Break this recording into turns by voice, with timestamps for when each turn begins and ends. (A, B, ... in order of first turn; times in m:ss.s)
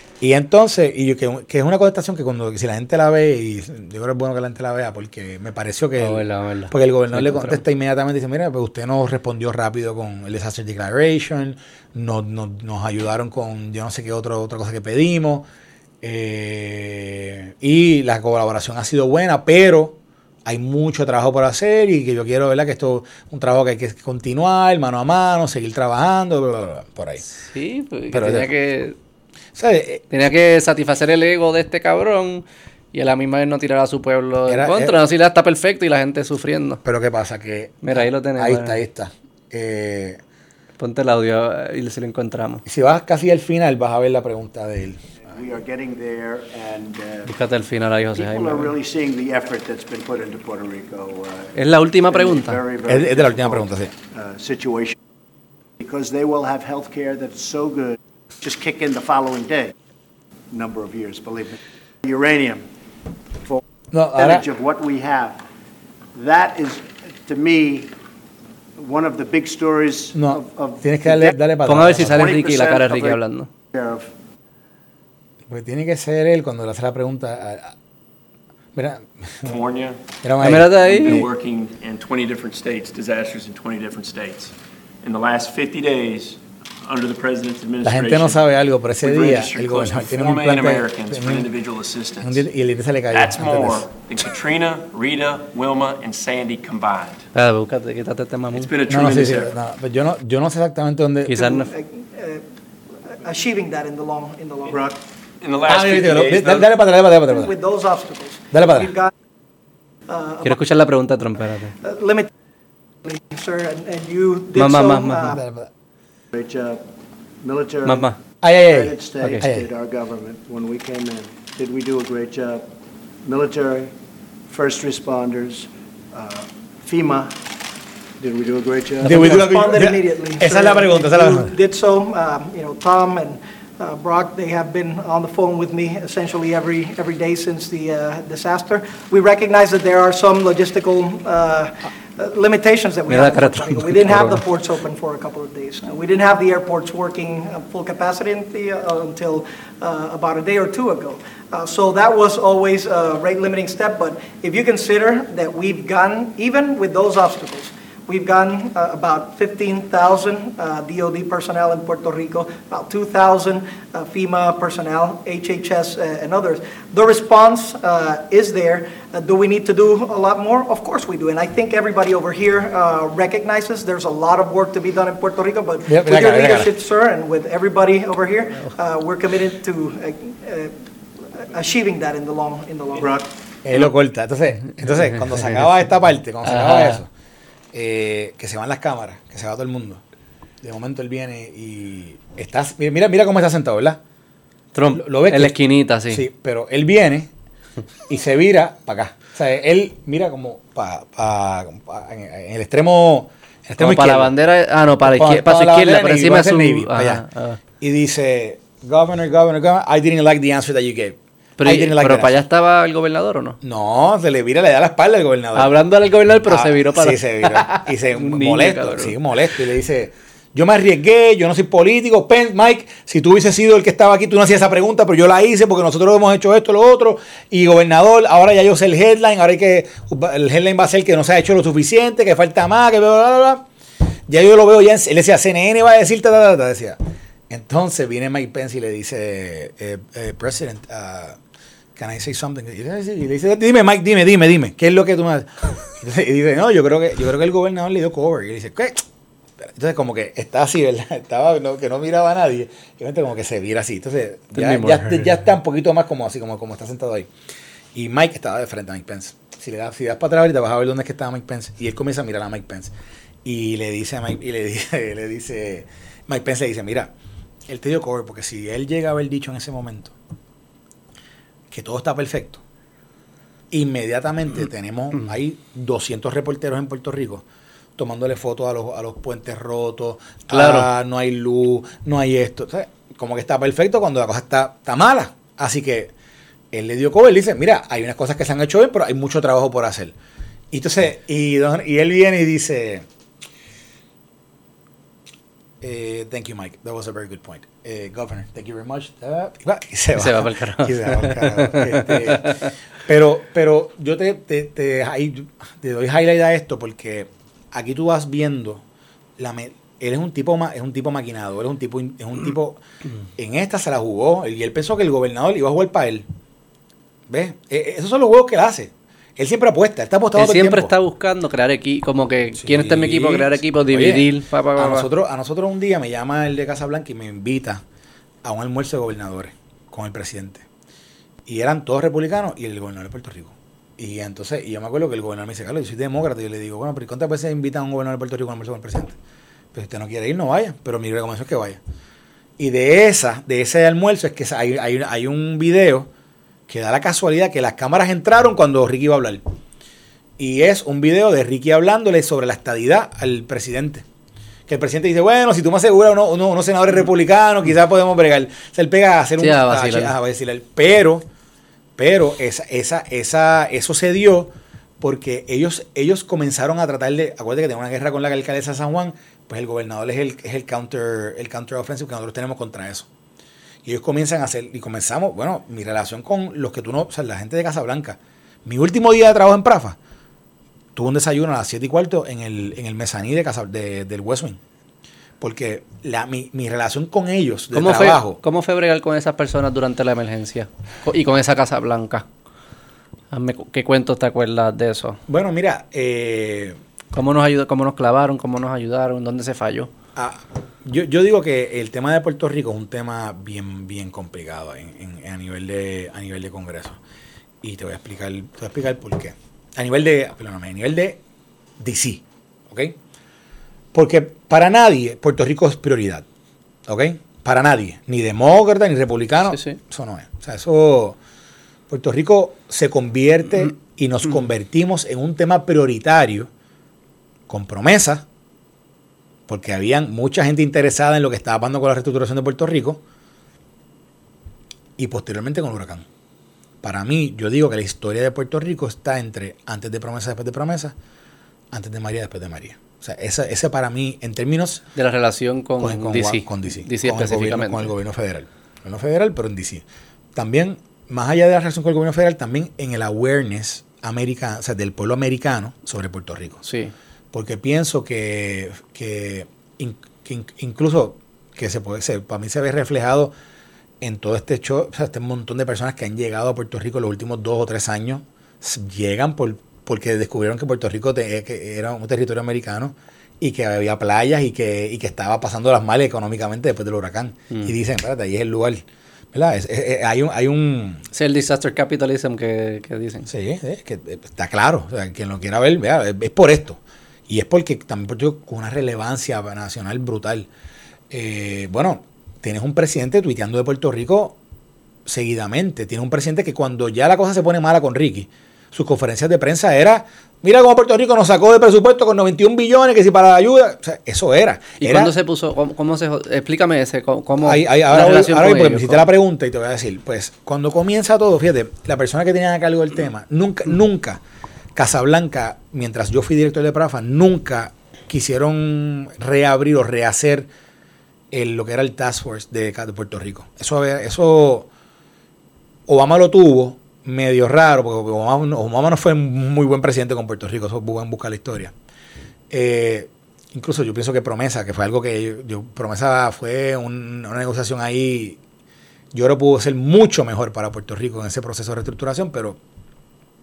0:00.2-0:15.4 A
0:06.0-0:07.6 B
0:16.0-0:27.2 A
0:27.3-0:29.0 B
0:28.1-0:28.5 A
0:29.6-0:30.0 A
0:30.1-0:36.8 B
0:34.5-0:35.0 A
0:36.8-0:40.2 A
0:37.8-0:38.8 B
0:40.8-0:42.6 B
0:42.6-0:45.0 A
0:45.2-0:47.3 C
0:47.2-0:48.7 B
0:48.1-0:51.5 C
0:51.5-0:52.6 B
0:52.1-0:55.0 C
0:52.9-0:53.9 A
0:55.8-0:59.7 C
1:00.5-1:02.7 C
1:03.9-1:04.4 A
1:04.1-1:05.4 C
1:06.1-1:07.9 C
1:08.8-1:11.4 C
1:10.1-1:12.3 A
1:11.6-1:13.5 B
1:12.0-1:14.1 C
1:15.5-1:17.7 A
1:18.7-1:19.5 A
1:19.4-1:20.0 D
1:20.2-1:21.3 A
1:20.4-1:21.3 B
1:20.7-1:28.4 D
1:27.8-1:31.5 A
1:29.0-1:32.5 D
1:32.2-1:33.9 A
1:33.1-1:37.2 D
1:37.3-1:38.7 B
1:38.5-1:39.5 D
1:38.9-1:41.5 A
1:41.3-1:41.7 B
1:41.4-1:42.4 E
1:43.1-1:44.8 E
1:44.7-1:45.0 C
1:45.4-1:46.7 D
1:45.6-1:47.5 A
1:47.3-1:49.1 E
1:48.5-1:48.9 A
1:50.1-1:50.6 E
1:50.4-1:51.8 B
1:51.8-1:52.3 E
1:53.0-1:55.4 E
1:54.5-1:55.4 B
1:55.2-1:55.7 A
1:56.3-1:56.8 C
1:57.4-2:02.6 C
1:57.8-1:58.2 B
1:58.4-1:59.7 A
2:03.2-2:03.9 C
2:04.5-2:07.4 C
2:08.2-2:09.4 C
2:09.0-2:11.5 A
2:09.1-3:03.2 E
2:23.1-2:24.4 B
2:55.9-2:56.7 A
3:03.0-3:03.3 C
3:03.6-3:07.1 A
3:06.4-3:07.0 B
3:07.7-3:10.0 A
3:10.6-3:14.0 A
3:14.7-3:16.2 B
3:14.9-3:15.5 A
3:16.1-3:17.3 A
3:18.1-3:24.3 A
3:23.8-3:27.6 B
3:25.0-3:27.2 A
3:27.8-3:32.4 A
3:31.6-3:33.6 B
3:33.6-3:35.7 A
3:35.5-3:39.2 B
3:36.5-3:53.6 A
3:54.3-3:57.0 A
3:57.5-4:01.4 A
4:02.0-4:09.0 A
4:09.6-4:17.3 A
4:14.5-4:15.3 B
4:17.9-4:22.9 A
4:23.4-4:27.1 A
4:27.7-4:30.1 A
4:31.7-4:32.6 A
4:33.7-4:37.4 A
4:38.0-4:46.1 A
4:40.5-4:40.9 B
4:46.7-4:50.1 A
4:50.7-4:53.0 A
4:55.8-5:08.8 A
5:00.1-5:02.7 B
5:09.4-5:12.8 A
5:13.4-5:16.2 A
5:17.3-5:20.9 A
5:20.3-5:25.1 B
5:22.6-5:27.8 A
5:28.4-5:30.6 A
5:31.4-5:39.2 A
5:39.7-5:41.8 A
5:42.6-5:46.1 A
5:46.7-5:49.4 A
5:50.4-5:54.0 A
5:54.7-6:01.2 A
5:59.4-6:00.1 B
6:02.0-6:13.1 A
6:13.8-6:20.0 A
6:21.0-6:24.6 A
6:25.4-6:28.4 A
6:27.7-6:32.2 B
6:33.3-6:35.2 B
6:35.3-6:36.8 A
6:37.1-6:39.9 B
6:40.2-6:47.0 A
6:47.6-6:51.2 A
6:51.8-6:53.0 A
6:53.9-6:56.2 A
6:56.9-7:01.2 A
6:59.5-6:59.8 B
7:01.9-7:06.5 A
7:07.5-7:08.2 A
7:09.5-7:13.0 A
7:15.0-7:16.0 A
7:16.8-7:20.9 A
7:21.7-7:24.8 A
7:25.0-7:27.9 B
7:25.8-7:29.8 A
7:30.3-7:36.6 A
7:36.6-7:36.9 B
7:37.3-7:43.3 A
7:44.0-8:01.0 A
8:01.1-8:03.3 B
8:03.3-8:10.5 A
8:11.1-8:14.4 A
8:15.0-8:25.1 A
8:24.8-8:29.0 B
8:27.4-8:34.2 A
8:34.8-8:40.5 A
8:41.3-8:44.7 A
8:45.9-8:51.7 A
8:52.5-8:58.4 A
8:59.1-9:02.6 A